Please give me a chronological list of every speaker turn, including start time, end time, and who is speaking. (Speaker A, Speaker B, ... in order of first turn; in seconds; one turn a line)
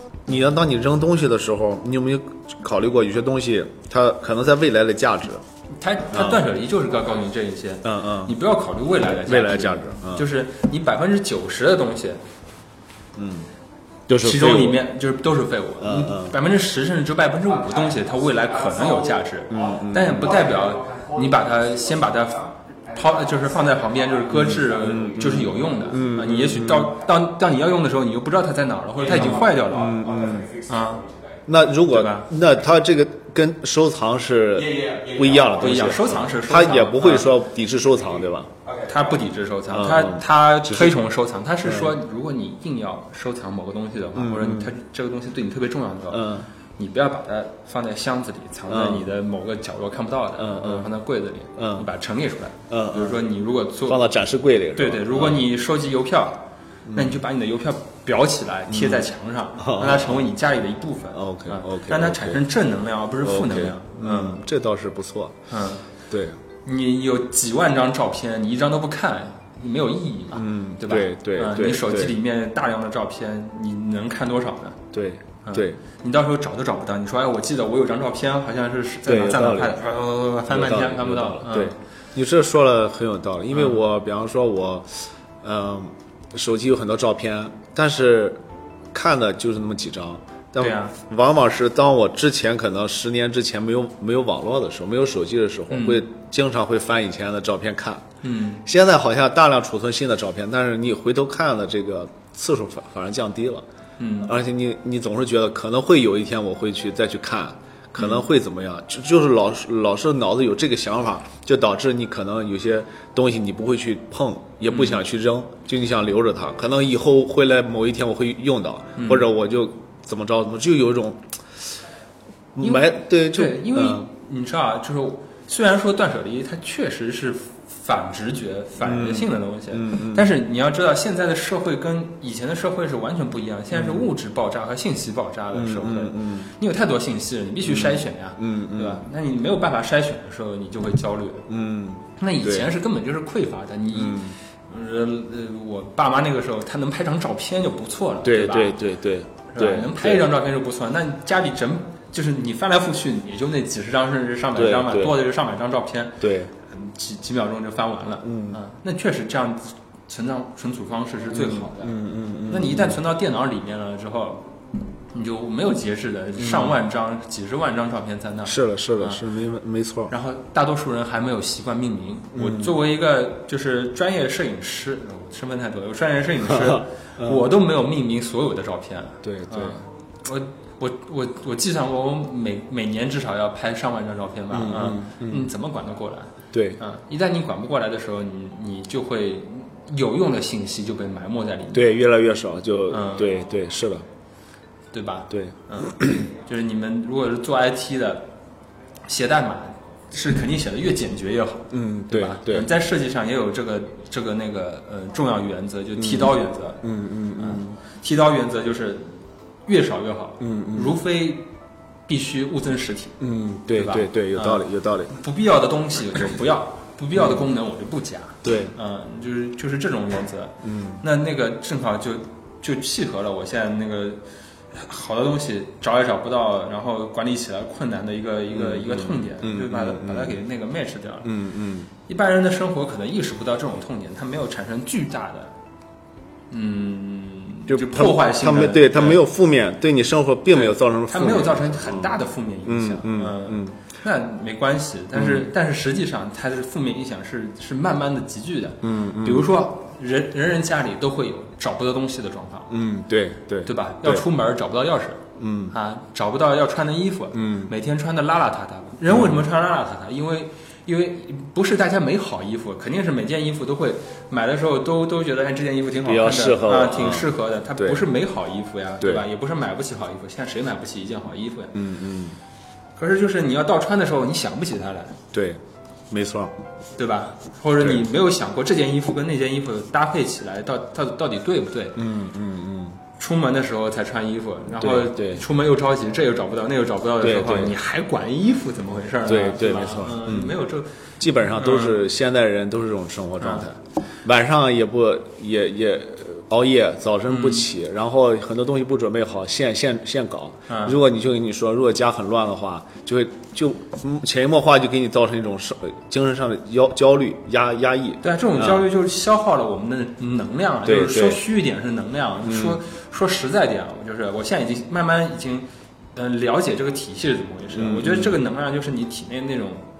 Speaker A: 0.3-5.4
Speaker B: 5.8-12.2
Speaker A: 6.1-6.5
Speaker A: 7.8-8.4
Speaker A: 9.0-10.3
Speaker A: 13.2-13.5
Speaker A: 14.1-14.8
Speaker B: 14.2-30.0
Speaker A: 15.8-16.4
Speaker A: 19.5-20.4
Speaker A: 24.3-26.9
Speaker A: 29.1-30.5
Speaker B: 30.7-31.1
Speaker A: 31.5-38.5
Speaker B: 31.9-32.3
Speaker B: 35.6-37.3
Speaker B: 38.8-54.0
Speaker A: 39.7-41.0
Speaker A: 41.6-41.9
Speaker A: 44.1-44.7
Speaker A: 46.1-46.5
Speaker A: 48.7-49.1
Speaker A: 50.4-50.9
Speaker A: 51.5-51.9
Speaker A: 52.7-53.3
Speaker A: 53.9-55.5
Speaker B: 54.8-64.4
Speaker A: 56.9-57.2
Speaker A: 58.7-60.3
Speaker A: 61.1-62.4
Speaker A: 63.2-65.4
Speaker B: 65.5-65.8
Speaker A: 66.1-66.4
Speaker B: 66.6-74.8
Speaker A: 70.3-72.2
Speaker A: 74.9-75.8
Speaker B: 75.4-81.8
Speaker A: 79.0-79.8
Speaker A: 80.5-88.4
Speaker B: 83.5-83.8
Speaker A: 88.9-98.0
Speaker B: 90.6-90.9
Speaker B: 95.7-96.0
Speaker B: 98.2-98.6
Speaker A: 98.6-103.6
Speaker B: 104.0-104.3
Speaker A: 104.2-121.6
Speaker B: 108.0-108.2
Speaker B: 114.7-115.0
Speaker B: 119.0-119.3
Speaker A: 122.5-124.1
Speaker B: 122.6-141.4
Speaker A: 128.8-130.3
Speaker A: 133.7-134.1
Speaker A: 135.5-136.5
Speaker A: 137.6-139.1
Speaker A: 141.5-142.7
Speaker B: 142.2-148.8
Speaker A: 143.9-144.4
Speaker A: 148.2-150.3
Speaker B: 149.5-161.9
Speaker A: 154.6-155.2
Speaker A: 156.2-156.5
Speaker A: 158.2-158.6
Speaker A: 161.3-163.0
Speaker B: 162.5-164.4
Speaker B: 165.1-169.2
Speaker A: 166.4-166.8
Speaker A: 168.4-170.1
Speaker B: 170.1-191.9
Speaker A: 172.3-172.8
Speaker A: 176.4-177.5
Speaker A: 179.2-179.8
Speaker A: 184.5-185.5
Speaker A: 186.5-186.8
Speaker A: 191.7-194.1
Speaker B: 192.9-193.3
Speaker B: 194.9-198.3
Speaker A: 195.3-196.3
Speaker B: 199.1-206.8
Speaker A: 201.7-202.7
Speaker A: 206.0-207.8
Speaker B: 207.4-211.5
Speaker A: 210.4-211.0
Speaker B: 212.1-213.2
Speaker A: 213.2-215.1
Speaker B: 213.7-224.2
Speaker A: 217.1-217.5
Speaker A: 218.4-218.8
Speaker A: 220.6-221.0
Speaker B: 224.7-231.3
Speaker A: 228.5-230.4
Speaker A: 231.2-231.9
Speaker B: 232.1-235.5
Speaker B: 236.5-239.2
Speaker A: 237.7-243.8
Speaker B: 240.5-252.8
Speaker A: 245.1-245.5
Speaker A: 248.8-249.6
Speaker A: 252.7-254.2
Speaker B: 253.7-255.2
Speaker A: 255.4-255.8
Speaker B: 255.7-271.8
Speaker A: 257.3-257.7
Speaker A: 259.1-259.4
Speaker A: 266.0-268.1
Speaker A: 269.0-269.2
Speaker A: 271.8-272.4
Speaker B: 273.0-275.2
Speaker A: 275.3-276.5
Speaker B: 277.0-282.0
Speaker A: 277.8-278.1
Speaker A: 282.0-283.0
Speaker B: 283.2-290.9
Speaker A: 284.8-285.4
Speaker A: 287.2-287.8
Speaker A: 289.2-290.7
Speaker A: 291.2-308.9
Speaker B: 291.5-292.0
Speaker B: 293.4-293.7
Speaker B: 297.3-297.7
Speaker B: 300.7-301.0
Speaker B: 308.2-319.8
Speaker A: 310.8-311.4
Speaker A: 312.4-312.8
Speaker A: 317.7-318.4